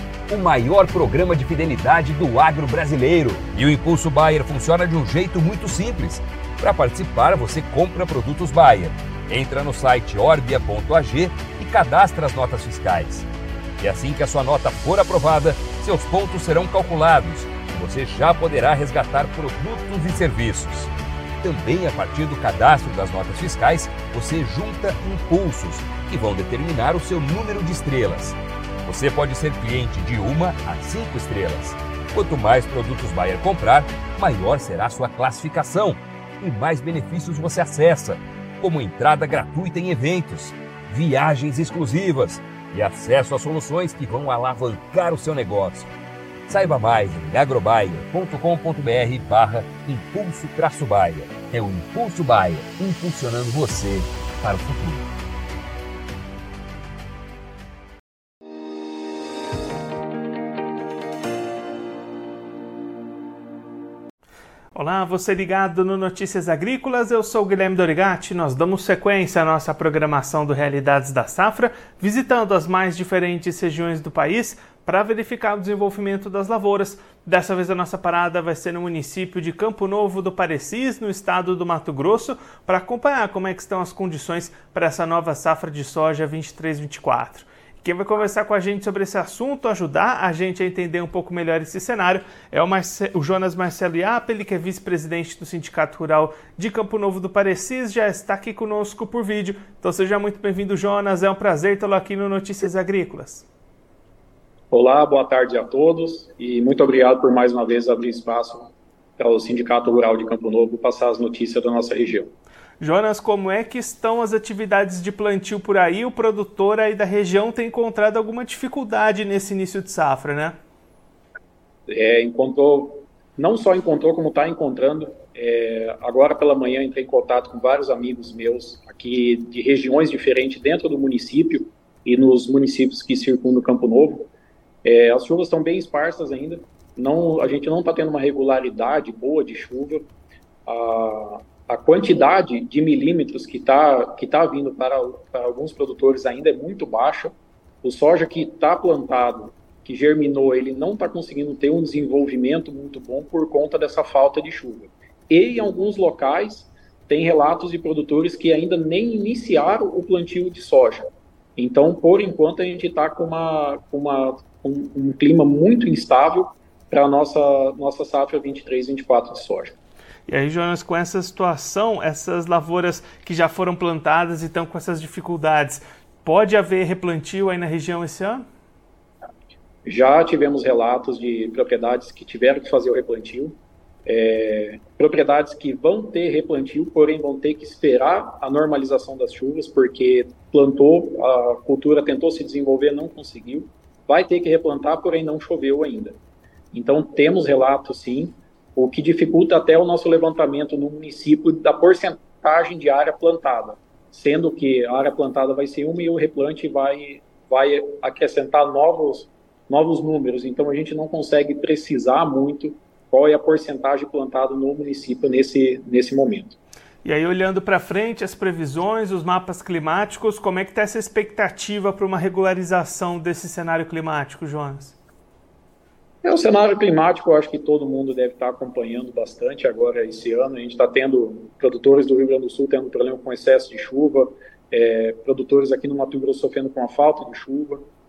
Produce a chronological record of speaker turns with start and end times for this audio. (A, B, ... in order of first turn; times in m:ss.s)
0:00.3-0:13.3 A
0:13.8-0:45.9 A
0:46.5-0:55.1 A
1:04.7-1:43.4 B
1:44.7-1:52.3 C
1:52.8-2:00.6 B
2:01.9-2:14.3 C
2:14.8-2:20.0 C
2:20.6-2:49.7 C
2:50.3-2:58.4 B
2:59.8-3:16.2 C
3:16.7-3:36.6 C
3:37.0-3:45.0 B
3:46.2-3:57.8 C